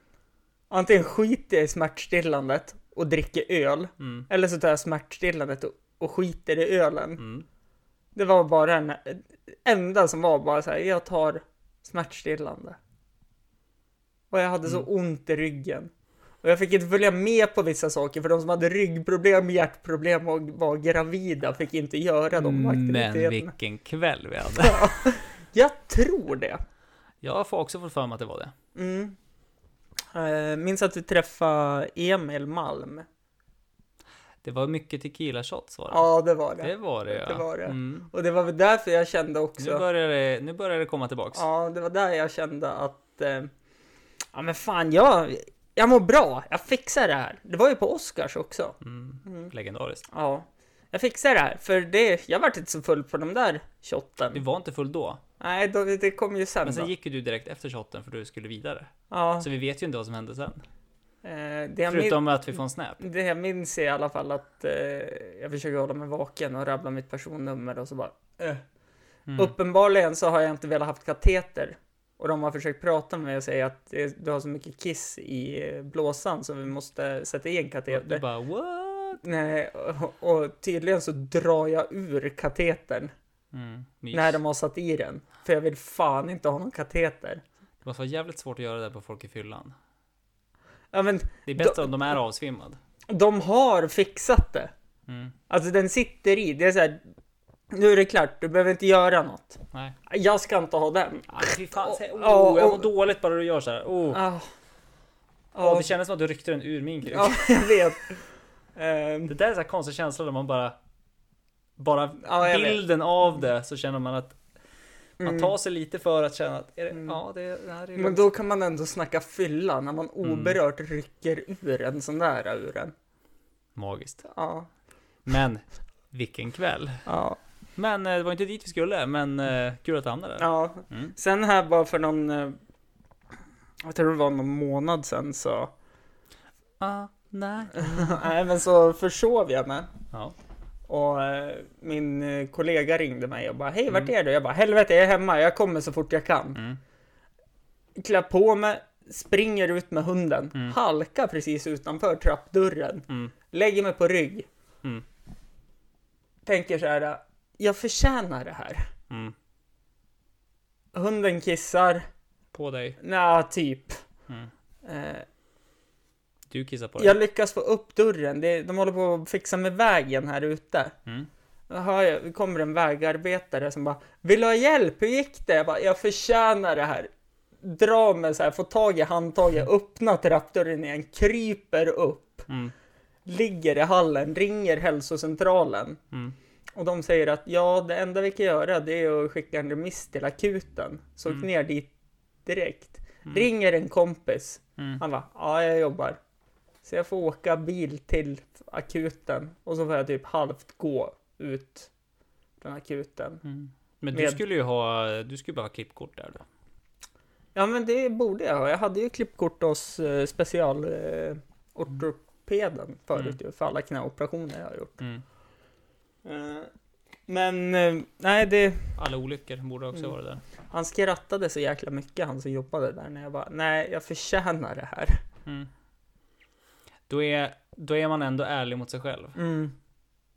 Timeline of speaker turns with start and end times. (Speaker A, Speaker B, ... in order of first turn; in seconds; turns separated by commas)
Speaker A: 0.7-7.3, Speaker B: 4.0-4.3, Speaker B: 7.2-7.5, Speaker A: 8.2-12.8, Speaker A: 14.3-15.9, Speaker A: 16.4-23.5, Speaker B: 22.3-25.1, Speaker A: 24.6-26.6, Speaker B: 27.2-28.5, Speaker A: 28.8-29.2, Speaker A: 30.1-33.1, Speaker B: 34.4-36.0, Speaker A: 35.9-39.8, Speaker B: 36.6-38.1, Speaker B: 39.6-41.4, Speaker A: 41.3-43.5, Speaker A: 44.3-49.5, Speaker B: 48.8-50.0, Speaker A: 50.1-54.4, Speaker B: 54.3-55.2, Speaker A: 55.4-56.9, Speaker B: 56.6-60.6, Speaker A: 59.1-59.5, Speaker A: 61.2-62.3, Speaker B: 61.9-63.0, Speaker A: 63.0-68.6, Speaker B: 69.3-69.5, Speaker A: 69.3-78.2, Speaker B: 77.9-79.2, Speaker A: 79.2-83.1, Speaker B: 83.5-84.4, Speaker A: 84.1-87.4, Speaker B: 87.8-89.8, Speaker A: 90.9-91.9, Speaker B: 91.5-92.8, Speaker A: 93.1-94.7, Speaker B: 95.1-95.3, Speaker A: 95.5-97.0, Speaker A: 97.7-102.9, Speaker B: 101.3-104.2, Speaker A: 104.1-104.5, Speaker A: 105.5-105.9, Speaker B: 105.6-107.4, Speaker A: 107.1-108.2, Speaker A: 108.8-109.3, Speaker B: 109.3-110.8, Speaker B: 111.8-114.4, Speaker A: 112.2-112.8, Speaker A: 115.2-115.5, Speaker B: 115.2-118.2, Speaker A: 118.0-122.9, Speaker B: 120.2-120.6, Speaker B: 123.8-124.2, Speaker A: 124.2-124.7, Speaker B: 125.2-127.0, Speaker A: 127.1-127.4, Speaker B: 127.8-131.1, Speaker A: 130.4-132.6, Speaker A: 133.8-135.7, Speaker B: 136.8-138.2, Speaker A: 137.8-139.9, Speaker A: 140.9-146.6, Speaker B: 146.6-146.8, Speaker A: 148.0-154.5, Speaker A: 156.5-158.9, Speaker B: 159.1-159.3, Speaker A: 160.9-162.1, Speaker B: 162.5-163.0, Speaker A: 163.0-164.0, Speaker A: 164.8-165.3, Speaker B: 166.5-167.2, Speaker A: 167.0-171.0, Speaker A: 171.7-177.1, Speaker A: 177.6-182.5, Speaker A: 183.3-186.0, Speaker A: 186.8-191.9, Speaker A: 192.4-196.2, Speaker A: 196.8-201.9, Speaker A: 202.6-203.4, Speaker B: 203.4-206.4, Speaker A: 204.1-204.4, Speaker A: 207.6-215.0, Speaker A: 216.2-216.7, Speaker A: 217.3-219.0, Speaker B: 219.0-220.4, Speaker A: 220.7-225.2, Speaker B: 227.1-229.4, Speaker A: 229.4-229.8